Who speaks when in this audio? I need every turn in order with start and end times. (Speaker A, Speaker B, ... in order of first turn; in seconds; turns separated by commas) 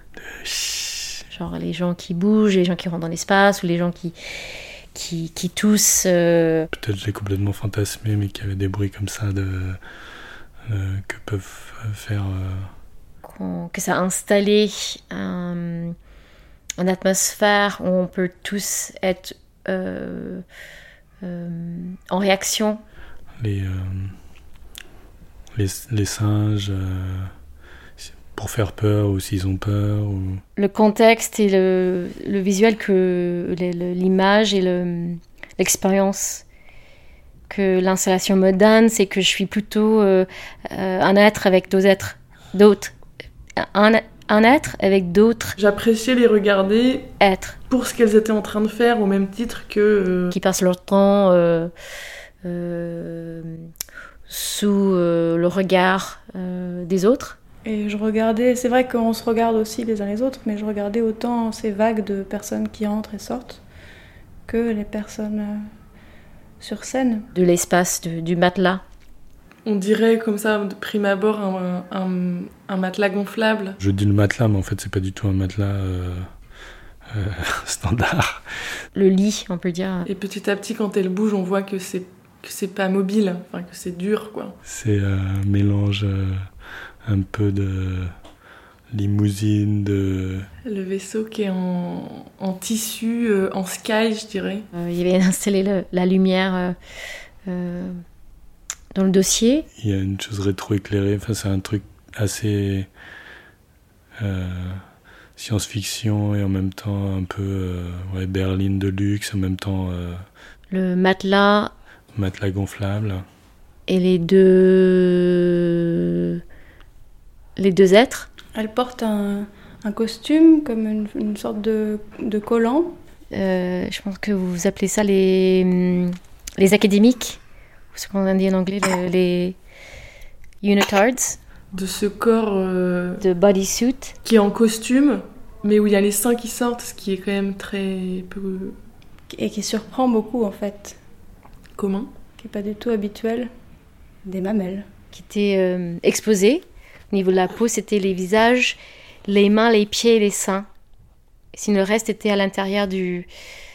Speaker A: 0.2-1.2, Speaker B: 1.3-4.2, Speaker B: 4.9-6.7, Speaker A: 6.7-9.8, Speaker A: 10.7-12.7, Speaker B: 13.2-15.9, Speaker B: 16.8-20.4, Speaker B: 21.2-22.8, Speaker A: 23.4-24.2, Speaker A: 25.6-27.3, Speaker A: 28.0-30.4, Speaker B: 30.6-36.5, Speaker B: 37.5-42.9, Speaker B: 43.6-45.6, Speaker C: 45.6-47.1, Speaker B: 47.2-47.6, Speaker C: 47.7-50.4, Speaker B: 50.3-51.7, Speaker B: 52.4-53.7, Speaker B: 54.3-57.4, Speaker D: 57.6-63.6, Speaker D: 64.5-65.6, Speaker D: 66.6-67.3, Speaker B: 67.3-68.8, Speaker C: 69.7-73.8, Speaker A: 73.8-76.3, Speaker A: 77.1-78.4, Speaker B: 78.9-80.1, Speaker C: 80.1-84.6, Speaker A: 84.7-86.4, Speaker A: 87.0-88.2, Speaker A: 88.9-90.5, Speaker C: 90.7-94.7, Speaker B: 94.7-96.8, Speaker B: 97.5-98.0, Speaker B: 98.9-99.7, Speaker A: 99.8-102.9, Speaker A: 104.2-104.8, Speaker A: 105.4-110.2, Speaker B: 110.7-111.7, Speaker A: 112.1-113.2, Speaker B: 113.9-116.4, Speaker B: 117.6-118.3, Speaker D: 118.5-123.0, Speaker B: 123.3-127.4, Speaker B: 127.9-129.6, Speaker B: 130.6-131.4, Speaker C: 131.7-133.2, Speaker B: 133.2-134.2, Speaker C: 134.2-138.8, Speaker D: 139.3-141.0, Speaker C: 141.8-142.1, Speaker D: 142.4-143.5, Speaker D: 144.2-144.9, Speaker B: 145.1-150.7, Speaker B: 151.5-153.3